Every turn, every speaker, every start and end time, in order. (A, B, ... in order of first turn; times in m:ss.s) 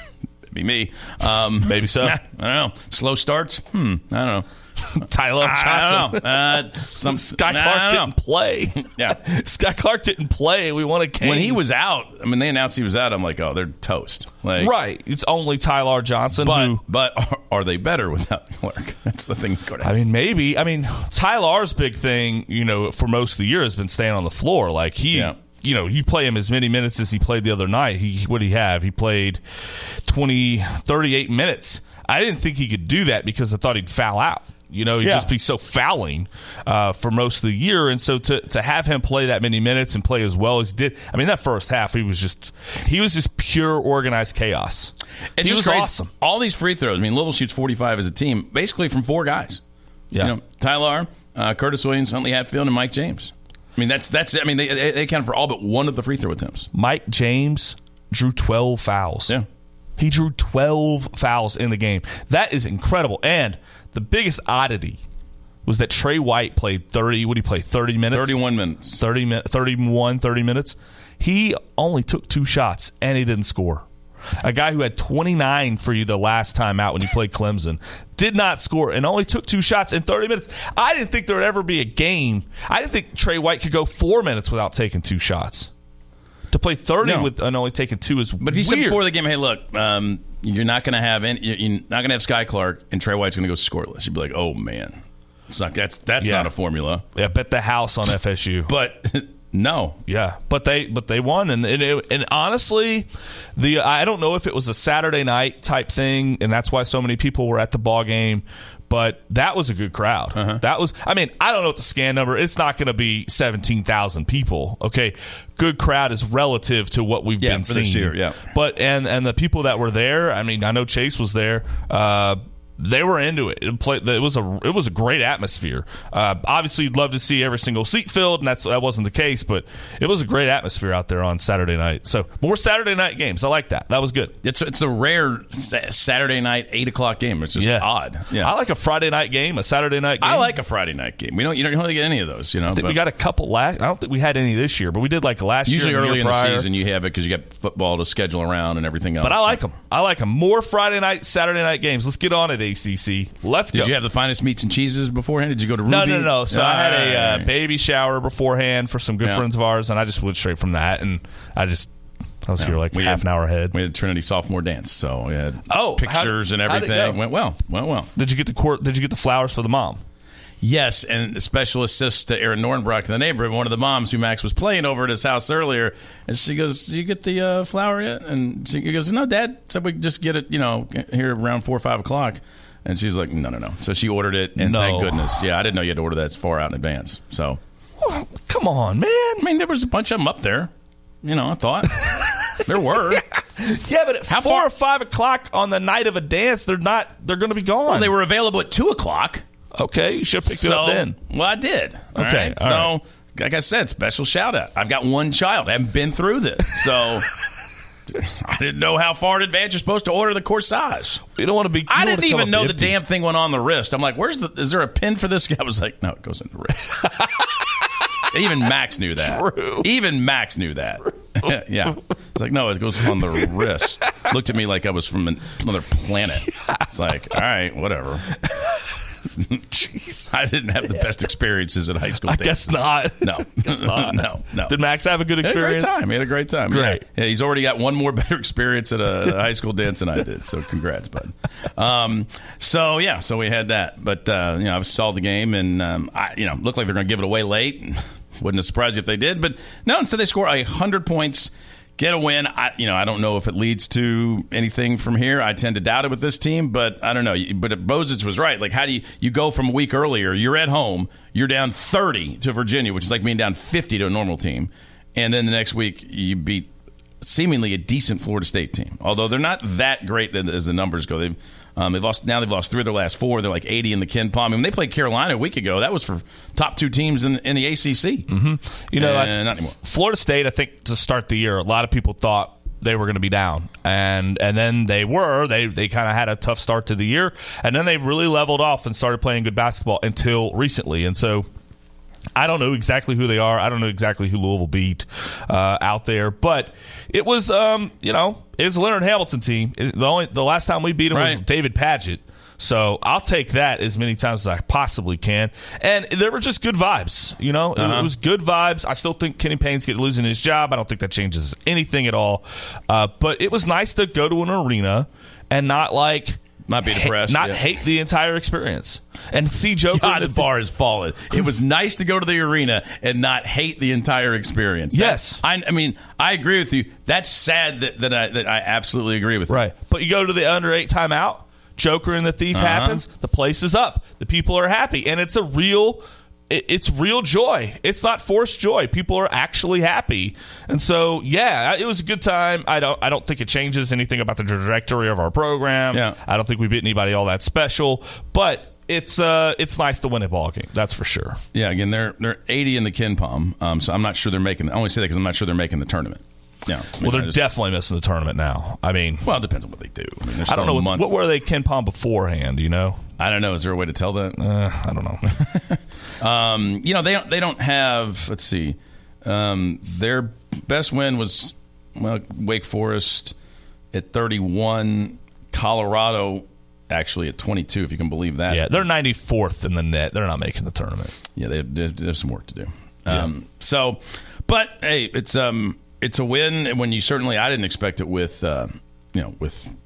0:00.5-0:04.5 A
0:01.6-0:02.2 B
0:04.8-0:11.6 B
0:05.4-0:08.1 A
0:08.8-0:09.2 A
0:11.2-0:14.7 A
0:14.6-0:16.8 B
0:16.4-0:19.9 A
0:19.8-0:29.4 B
0:30.0-0:46.1 B
0:35.0-0:35.3 A
0:45.4-0:49.6 A
0:50.2-0:56.7 A
0:56.7-0:59.4 B
1:00.0-1:05.0 B
1:05.6-1:08.4 B
1:08.1-1:09.0 A
1:09.0-1:13.8 B
1:14.4-1:25.7 B
1:26.5-1:29.0 B
1:27.0-1:27.3 A
1:28.4-1:37.0 A
1:36.2-1:36.5 B
1:37.1-1:38.7 B
1:38.7-1:40.0 A
1:40.1-2:14.3 B
1:50.3-1:50.6 A
1:57.4-1:58.4 A
2:14.4-2:18.5 A
2:17.6-2:20.5 B
2:20.2-2:23.0 A
2:22.7-2:26.7 B
2:25.6-2:29.6 A
2:29.2-2:33.9 B
2:33.7-2:37.5 A
2:35.8-2:41.9 B
2:42.4-2:43.7 B
2:42.6-2:48.1 A
2:45.7-2:47.2 B
2:48.2-2:50.0 B
2:50.6-3:07.6 A
3:04.6-3:05.4 B
3:08.0-3:09.4 B
3:09.4-3:10.7 A
3:11.2-3:13.2 A
3:13.3-3:18.1 B
3:14.3-3:14.7 A
3:17.8-3:19.4 A
3:19.8-3:21.2 B
3:20.4-3:27.3 A
3:22.1-3:22.9 B
3:28.1-3:31.2 A
3:31.4-3:33.0 B
3:31.9-3:37.1 A
3:37.0-3:37.6 B
3:38.2-3:48.3 A
3:39.2-3:39.9 B
3:46.5-3:46.9 B
3:48.5-3:48.9 B
3:49.7-3:50.3 B
3:50.3-3:54.8 A
3:52.2-3:56.0 B
3:55.4-4:26.7 A
3:56.7-3:57.0 B
4:27.2-4:38.3 A
4:38.3-4:51.5 B
4:38.9-4:39.8 A
4:52.4-5:20.4 B
5:01.1-5:01.4 A
5:07.8-5:08.1 A
5:16.7-5:17.6 A
5:19.9-5:29.6 A
5:24.9-5:25.4 B
5:29.5-5:51.4 B
5:32.5-5:33.0 A
5:45.9-5:46.2 A
5:51.5-5:57.4 A
5:57.0-5:59.3 B
5:59.2-6:01.2 A
6:00.4-6:03.0 B
6:03.2-6:04.4 A
6:04.4-6:05.4 B
6:05.3-6:13.4 A
6:13.9-6:18.8 A
6:18.5-6:21.1 B
6:21.3-6:29.7 A